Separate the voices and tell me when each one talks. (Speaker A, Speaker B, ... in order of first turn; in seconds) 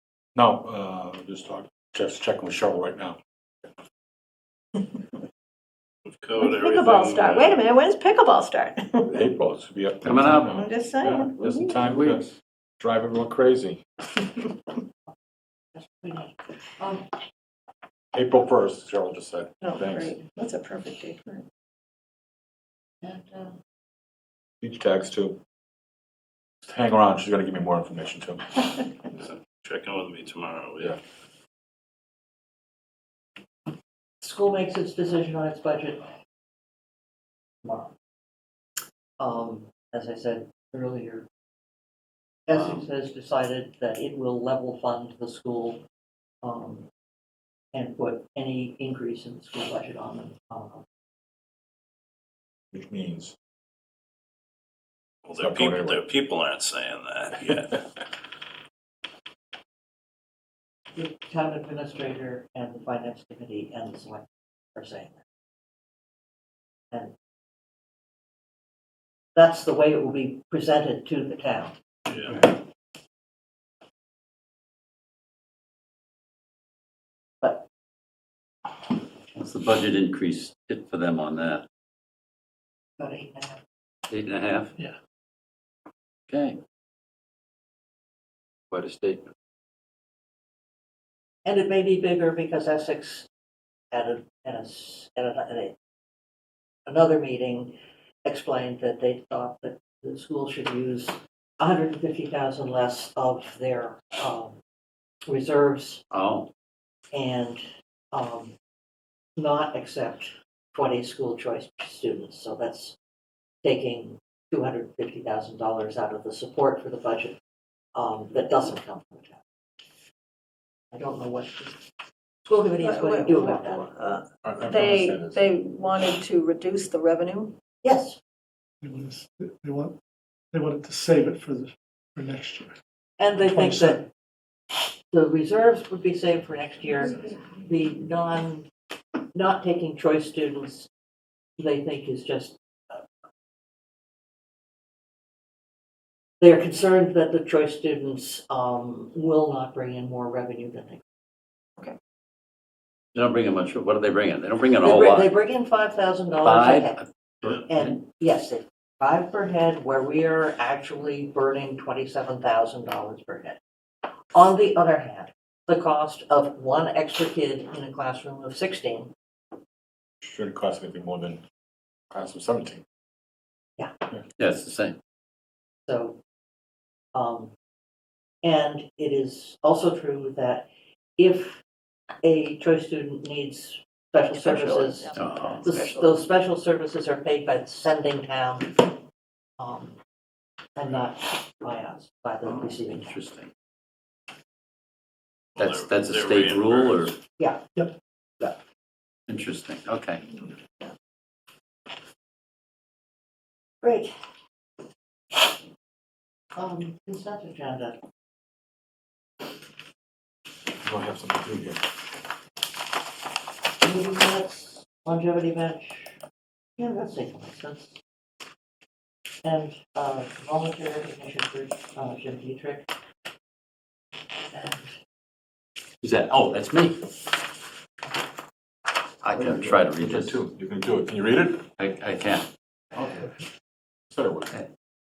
Speaker A: 0.3-3.2, 9.0-13.8, 18.1-20.2, 24.6-25.4, 26.6-28.6, 52.7-53.3, 55.4-56.0, 124.4-125.5, 170.2-171.4, 172.1-172.8, 210.8-211.8, 229.4-231.6, 232.9-233.3, 234.1-234.5
Speaker B: 6.2-7.6, 29.5-30.9, 55.3-57.6, 196.1-197.0
Speaker C: 6.4-9.1, 10.5-11.7, 19.6-21.4, 122.8-127.5, 184.3-186.2
Speaker D: 10.0-10.5, 11.8-12.2, 42.5-42.9, 79.3-81.7, 84.1-84.7, 86.3-86.6, 88.7-89.3, 106.1-106.5, 153.1-155.3, 156.4-157.9, 174.3-175.0, 185.1-185.7, 192.4-193.5, 195.5-197.1, 199.3-200.2, 226.0-227.1, 229.2-230.4, 231.8-232.5
Speaker E: 15.7-17.1, 23.0-23.6, 34.2-36.0, 37.6-37.9, 39.2-41.3, 42.5-45.8, 46.4-46.9, 47.7-50.8, 60.9-65.2, 69.3-71.8, 77.4-77.7, 83.0-83.6, 91.4-93.3, 93.9-95.8, 96.9-97.7, 98.2-104.5, 105.3-106.0, 107.1-108.5, 109.4-113.0, 113.6-117.3, 117.9-119.4, 120.9-121.8, 122.5-123.9, 127.8-128.2, 133.2-134.0, 135.1-138.7, 139.3-140.9, 141.6-143.0, 146.4-151.0, 154.8-163.6, 164.3-169.1, 175.9-176.2, 177.1-177.5, 178.4-180.7, 181.2-181.6, 182.2-188.8, 189.6-190.0, 190.8-193.2, 203.8-204.1, 206.5-208.0, 213.8-216.2, 216.8-218.0, 219.4-222.8, 224.5-224.9
Speaker F: 128.8-129.9, 130.5-132.8, 133.4-134.1